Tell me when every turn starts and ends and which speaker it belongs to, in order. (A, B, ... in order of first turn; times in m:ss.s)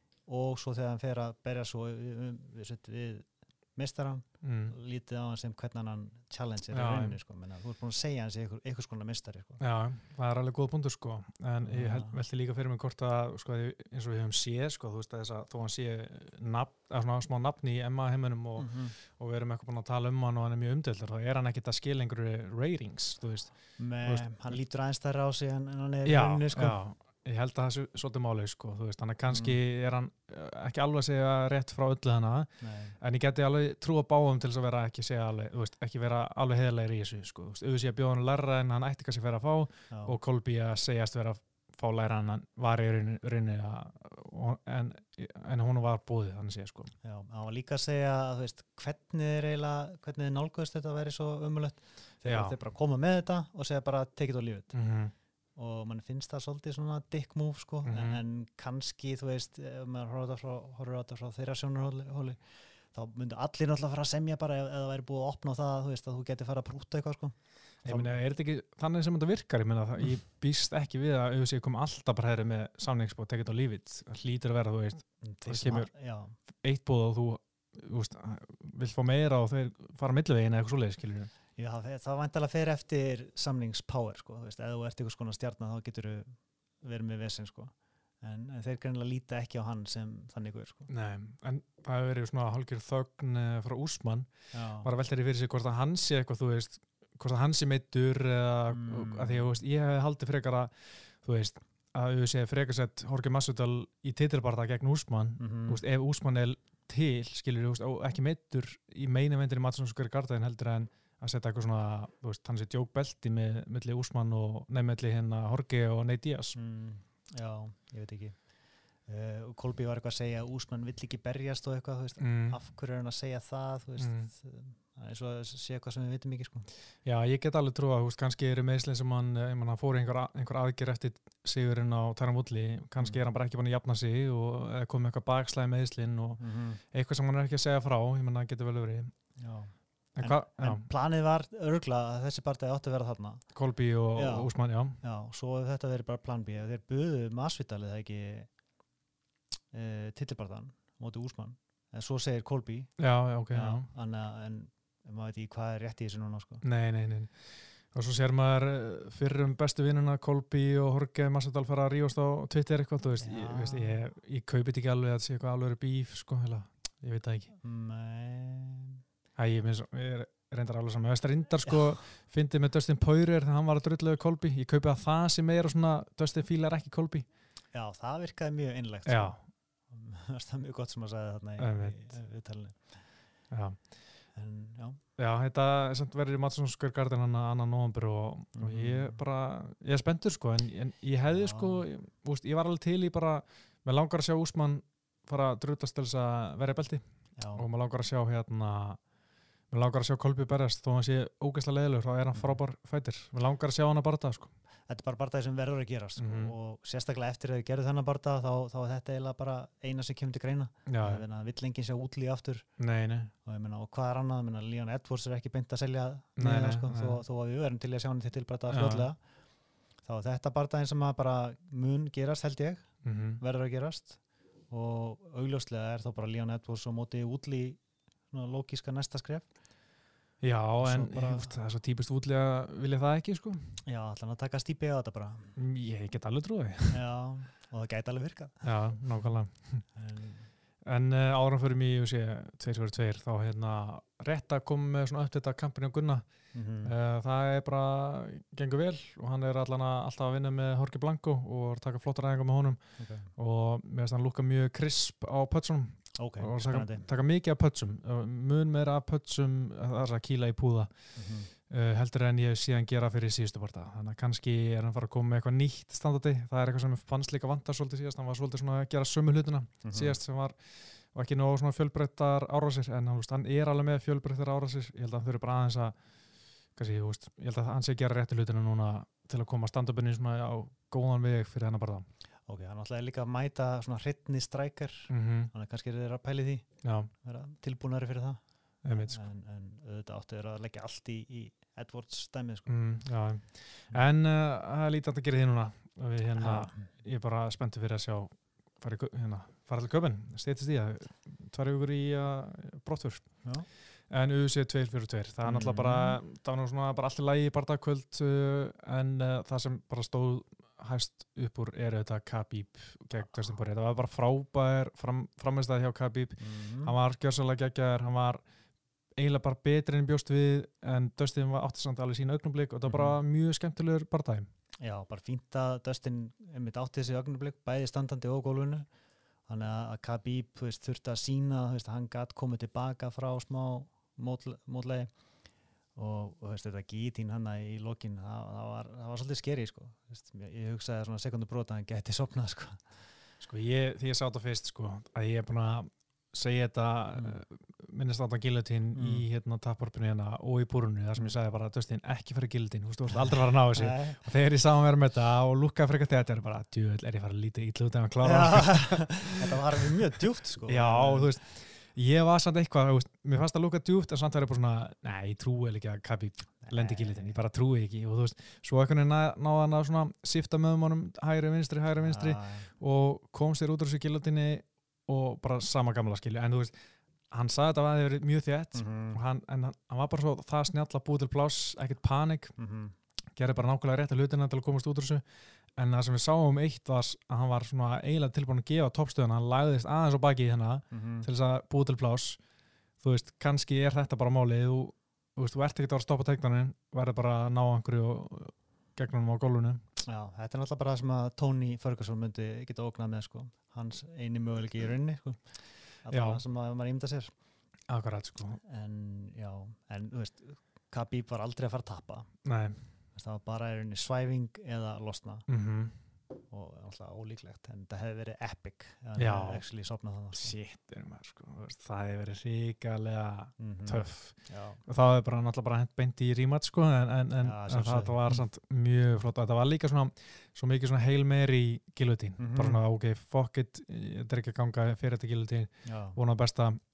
0:00.3-0:09.6 A
0:04.4-0:04.8 B
0:06.7-0:07.2 B
0:09.6-0:24.6 B
0:11.6-0:12.2 A
0:18.6-0:18.9 A
0:23.8-0:26.8 A
0:26.0-0:46.9 B
0:29.3-0:29.6 A
0:32.6-0:33.0 A
0:39.9-0:40.2 A
0:47.0-0:54.8 A
0:52.2-0:52.6 B
0:54.7-0:55.1 B
0:55.6-1:08.1 A
0:57.8-0:58.2 B
1:07.8-1:15.9 B
1:15.2-1:16.4 A
1:16.6-1:21.3 B
1:21.6-1:30.9 A
1:30.9-1:56.6 B
1:34.5-1:34.9 A
1:38.7-1:39.5 A
1:45.4-1:45.8 A
1:56.6-1:58.5 A
1:59.1-2:06.7 A
2:02.2-2:02.6 B
2:04.0-2:04.3 B
2:07.0-2:19.1 B
2:16.4-2:16.8 A
2:19.4-2:23.5 A
2:20.2-2:20.9 B
2:23.5-2:25.0 B
2:24.2-2:28.5 A
2:29.7-2:32.9 A
2:33.0-2:33.9 B
2:33.5-2:36.6 A
2:36.6-2:47.6 B
2:43.2-2:44.1 A
2:47.6-2:49.0 A
2:49.4-2:57.3 B
2:51.7-2:51.9 A
2:57.7-3:03.0 A
2:59.1-2:59.4 B
3:01.6-3:02.2 B
3:03.5-3:03.9 B
3:04.3-3:05.0 A
3:05.2-3:19.0 B
3:08.6-3:09.2 A
3:11.3-3:11.9 A
3:17.4-3:17.7 A
3:19.7-3:24.5 B
3:22.3-3:22.6 A
3:24.9-3:32.8 A
3:26.2-3:26.6 B
3:30.9-3:31.2 B
3:32.8-3:33.3 B
3:33.4-3:39.2 A
3:36.4-3:37.2 B
3:38.7-3:39.1 B
3:40.0-3:49.5 A
3:43.0-3:43.4 B
3:50.4-3:53.8 B
3:50.8-3:51.5 A
3:53.8-3:55.6 A
3:55.6-3:57.0 B
3:56.9-3:59.4 A
3:58.6-3:59.9 B
3:59.9-4:00.5 A
4:00.8-4:06.3 B
4:06.5-4:07.0 A
4:06.8-4:36.0 B
4:13.0-4:13.3 A
4:16.2-4:17.1 A
4:21.2-4:21.5 A
4:29.8-4:30.2 A
4:36.8-4:42.1 B
4:42.5-4:46.7 A
4:45.1-4:45.5 B
4:46.8-4:47.1 B
4:47.2-4:52.7 A
4:48.8-4:49.2 B
4:52.7-5:18.4 B
4:56.4-4:56.9 A
5:05.4-5:06.2 A
5:16.4-5:17.0 A
5:19.2-5:24.5 B
5:22.8-5:23.2 A
5:24.8-5:28.9 A
5:29.5-5:35.1 A
5:36.0-5:43.0 A
5:43.4-5:59.6 B
5:47.1-5:47.4 A
5:49.0-5:49.3 A
5:53.1-5:54.2 A
5:58.2-6:01.3 A
6:00.7-6:16.7 B
6:06.6-6:07.4 A
6:12.0-6:12.7 A
6:17.3-6:22.5 B
6:18.7-6:19.2 A
6:22.6-6:23.0 A
6:23.4-6:25.2 B
6:25.8-6:32.4 B
6:30.9-6:31.3 A
6:33.0-6:39.8 B
6:40.0-6:47.3 A
6:46.1-6:46.4 B
6:47.9-6:48.6 B
6:48.6-6:52.3 A
6:52.4-6:52.8 B
6:53.2-6:55.5 A
6:55.5-6:56.0 B
6:56.5-7:00.6 A
6:59.2-6:59.6 B
7:00.4-7:16.8 B
7:03.6-7:04.8 A
7:07.4-7:08.4 A
7:12.4-7:12.8 A
7:15.8-7:16.2 A